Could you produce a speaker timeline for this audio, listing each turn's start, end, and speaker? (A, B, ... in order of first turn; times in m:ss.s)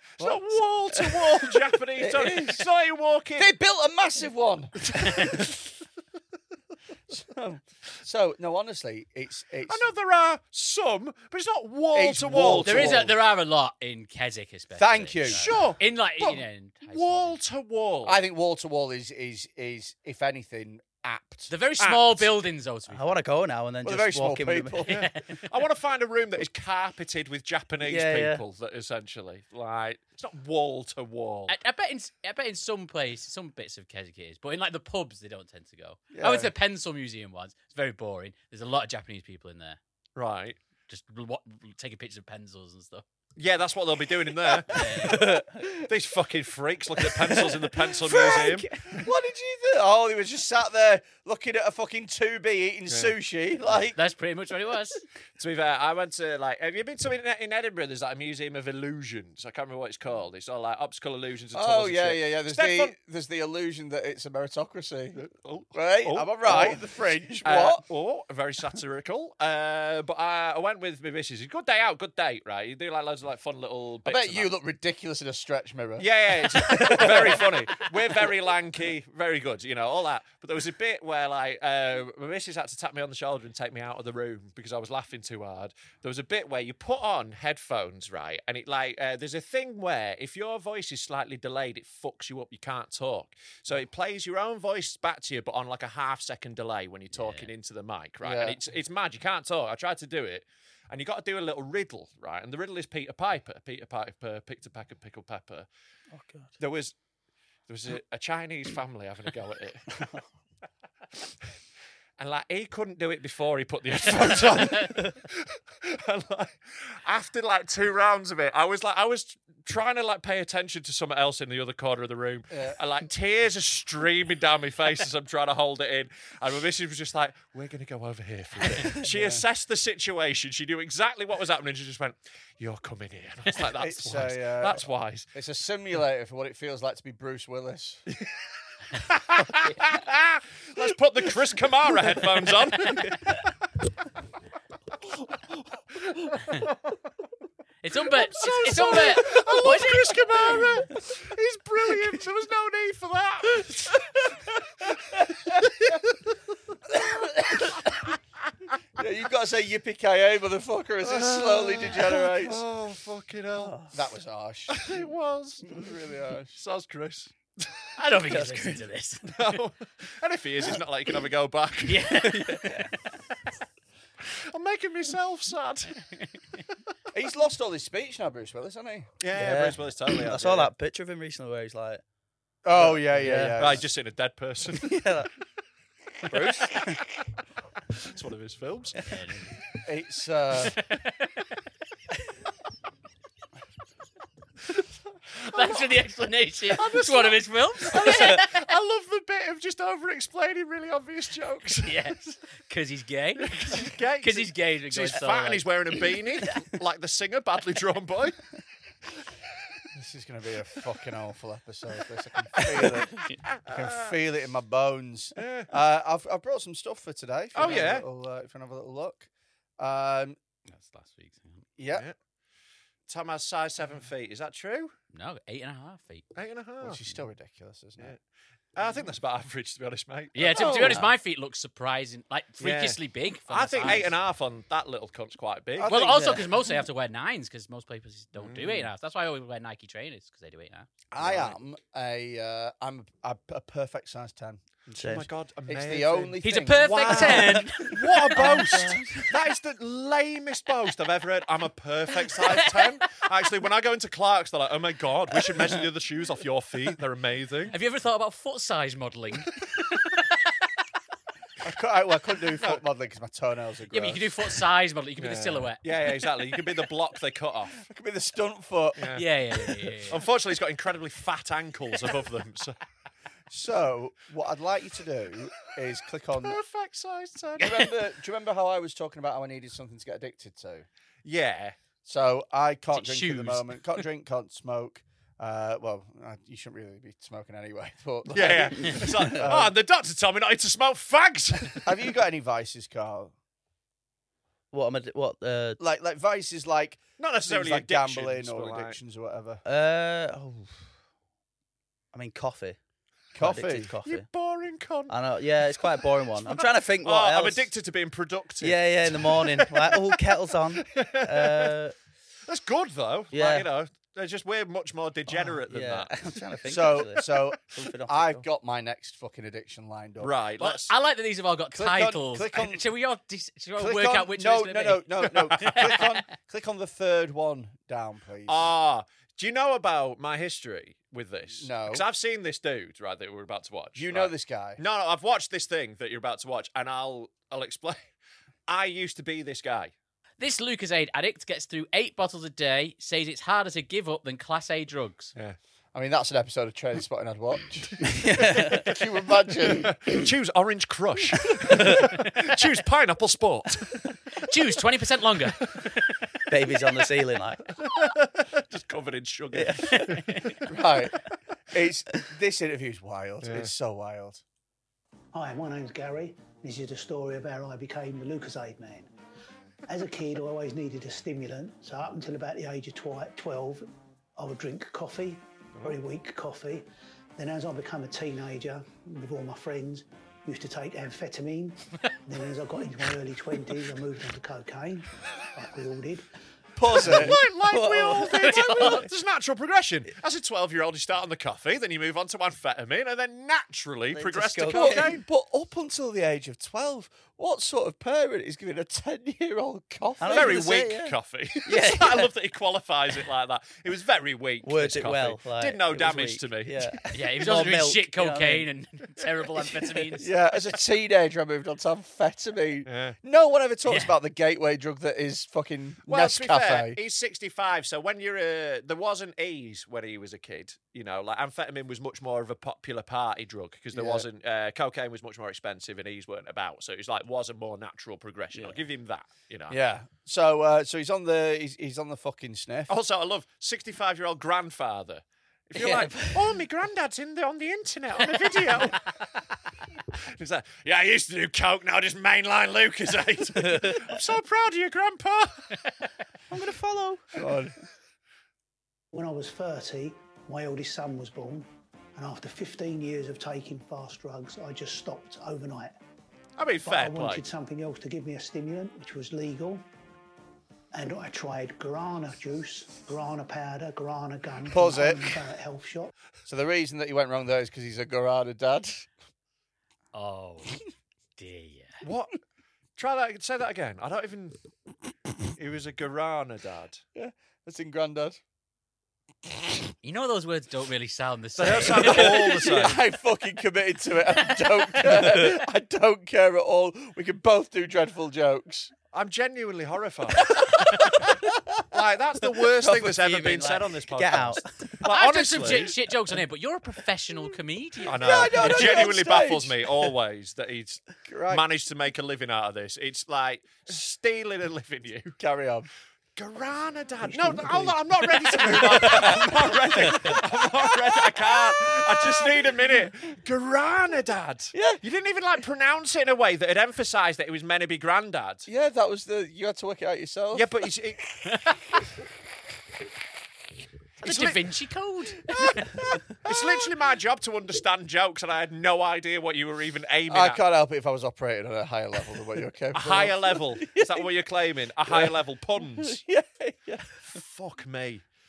0:00.2-0:03.5 A
0:00.9-0:01.4 B
0:02.1-0:02.6 C
0:03.4-0:05.6 C
0:07.1-0:09.8 C
0:09.7-0:13.1 A
0:11.9-0:13.2 C
0:12.3-0:17.4 D
0:14.7-0:15.7 C
0:15.3-0:18.2 A
0:18.0-0:21.5 C
0:21.5-0:23.2 D
0:21.8-0:22.3 A
0:22.9-0:25.1 B
0:23.8-0:25.1 C
0:24.9-0:25.5 D
0:25.5-0:31.6 A
0:27.8-0:28.4 B
0:31.5-0:39.8 D
0:36.1-0:36.5 C
0:40.2-0:40.6 A
0:40.9-0:43.0 D
0:43.4-0:44.7 A
0:44.7-0:45.3 D
0:44.7-0:45.7 C
0:44.8-0:45.7 B
0:45.9-0:48.7 A
0:47.3-0:54.0 C
0:52.9-0:53.1 A
0:53.9-0:55.0 D
0:55.4-1:02.9 A
1:01.5-1:05.2 C
1:05.2-1:06.9 A
1:05.7-1:07.8 C
1:07.4-1:14.5 A
1:14.1-1:17.8 C
1:16.0-1:45.7 A
1:37.1-1:37.5 D
1:38.2-1:38.6 C
1:46.1-1:46.5 B
1:46.6-1:46.9 A
1:47.7-1:50.0 A
1:50.0-1:50.2 B
1:52.2-2:15.3 A
2:02.5-2:02.8 C
2:09.0-2:09.4 C
2:13.7-2:18.0 C
2:19.0-2:23.4 A
2:27.8-2:30.2 D
2:28.2-2:34.2 A
2:35.1-2:35.9 A
2:36.9-2:37.9 C
2:39.0-2:42.6 C
2:41.0-2:43.9 A
2:43.6-2:43.9 B
2:43.9-2:45.0 C
2:44.7-2:45.9 A
2:45.6-2:46.6 C
2:46.5-2:47.8 A
2:48.0-2:49.6 D
2:48.3-2:48.9 B
2:49.3-2:52.3 A
2:51.8-2:53.0 D
2:52.3-2:52.9 B
2:54.3-2:56.0 A
2:57.1-2:59.1 C
2:59.2-3:00.7 A
2:59.3-3:02.0 B
3:02.6-3:03.9 C
3:02.8-3:03.6 B
3:03.6-3:05.0 A
3:04.7-3:05.3 B
3:06.3-3:07.0 B
3:08.0-3:09.0 A
3:09.1-3:09.5 D
3:09.8-3:10.8 C
3:10.9-3:11.3 D
3:15.5-3:18.6 D
3:15.5-3:15.9 A
3:16.7-3:22.0 A
3:21.8-3:25.7 D
3:23.5-3:28.4 A
3:29.9-3:39.3 C
3:33.7-3:33.9 A
3:35.4-3:35.7 A
3:37.6-3:38.1 A
3:39.8-3:40.4 C
3:40.7-3:41.7 D
3:41.8-3:42.0 C
3:43.1-3:44.9 A
3:45.1-3:46.3 D
3:46.4-3:47.1 A
3:46.8-3:48.2 C
3:48.8-3:51.0 A
3:50.4-3:54.2 D
3:50.4-3:51.1 C
3:52.6-3:55.9 A
3:55.8-3:56.5 C
3:55.9-4:00.9 D
3:56.0-3:56.5 B
3:58.4-3:58.9 A
4:01.1-4:04.6 C
4:04.9-4:05.3 B
4:04.9-4:17.8 A
4:05.7-4:08.8 C
4:06.4-4:09.3 D
4:08.4-4:09.0 B
4:12.3-4:13.1 D
4:17.7-4:20.2 D
4:21.6-4:24.4 C
4:23.9-4:25.8 D
4:25.2-4:27.8 A
4:27.8-4:29.1 C
4:29.0-4:29.2 A
4:29.1-4:30.2 D
4:30.1-4:32.8 A
4:33.5-4:36.6 C
4:36.3-4:37.9 A
4:37.6-4:40.9 C
4:41.2-4:41.8 A
4:42.0-4:49.8 C
4:42.9-4:43.8 D
4:48.3-4:51.9 A
4:48.9-4:49.5 B
4:51.8-4:53.3 C
4:54.7-4:55.8 B
4:55.8-4:59.6 C
4:57.2-4:59.0 A
4:59.6-5:00.9 B
5:02.1-5:02.8 B
5:03.4-5:03.9 C
5:03.4-5:04.3 B
5:04.0-5:05.2 A
5:05.1-5:07.7 B
5:06.6-5:11.8 A
5:08.6-5:12.0 B
5:12.5-5:16.1 A
5:13.3-5:13.7 B
5:15.4-5:18.5 B
5:16.7-5:20.4 C
5:20.2-5:20.9 A
5:20.6-5:26.0 D
5:21.7-5:22.9 C
5:23.8-5:28.7 C
5:25.7-5:25.9 A
5:28.5-5:38.1 A
5:31.6-5:32.0 C
5:34.0-5:34.8 C
5:38.7-5:39.9 A
5:40.4-5:45.3 D
5:45.9-5:50.0 C
5:48.0-5:48.9 B
5:49.7-5:54.0 A
5:51.7-5:52.1 B
5:54.4-5:55.6 D
5:56.5-5:57.7 B
5:57.8-6:00.6 A
5:59.5-6:00.3 B
5:59.9-6:00.5 D
6:00.7-6:04.4 C
6:03.4-6:03.7 A
6:05.3-6:09.1 E
6:09.9-6:26.3 E
6:26.8-6:27.4 C
6:26.9-6:35.2 A
6:27.0-6:29.1 B
6:28.4-6:29.0 D
6:34.1-6:35.2 B
6:34.7-6:40.7 C
6:40.2-6:42.3 B
6:40.3-6:47.0 A
6:44.6-6:48.7 B
6:47.1-6:50.3 D
6:49.6-6:50.2 B
6:50.2-6:57.0 C
6:52.9-6:53.2 A
6:53.9-6:54.2 D
6:56.1-7:09.8 A
7:03.9-7:04.3 C
7:08.5-7:08.8 B
7:09.7-7:12.9 C
7:12.9-7:19.1 A
7:15.7-7:16.5 B
7:20.4-7:25.7 A
7:23.6-7:24.0 B
7:26.5-7:27.6 B
7:27.3-7:27.7 C
7:29.1-7:36.0 E
7:36.6-7:37.4 A
7:36.8-7:39.8 E
7:40.9-7:46.1 E
7:44.7-7:45.5 C
7:46.5-7:49.1 C
7:50.1-7:50.8 D
7:51.4-7:52.0 D
7:52.0-7:52.4 A
7:53.0-7:54.6 A
7:55.6-7:57.0 A
7:57.2-7:58.4 C
8:00.0-8:02.4 D
8:01.6-8:03.0 A
8:01.9-8:08.9 C
8:09.1-8:15.9 A
8:12.8-8:14.9 B
8:15.0-8:19.0 D
8:18.1-8:25.4 A
8:18.2-8:19.8 C
8:21.2-8:21.6 C
8:25.4-8:25.9 C
8:26.4-8:38.7 A
8:27.3-8:29.4 E
8:34.7-8:35.0 C
8:38.7-8:40.9 C
8:40.5-8:41.2 A
8:44.2-8:44.6 A
8:44.2-8:45.8 D
8:46.4-8:50.6 A
8:46.4-8:46.8 C
8:50.3-8:54.3 C
8:52.9-8:56.2 A
8:55.1-8:57.2 C
8:57.3-8:58.2 A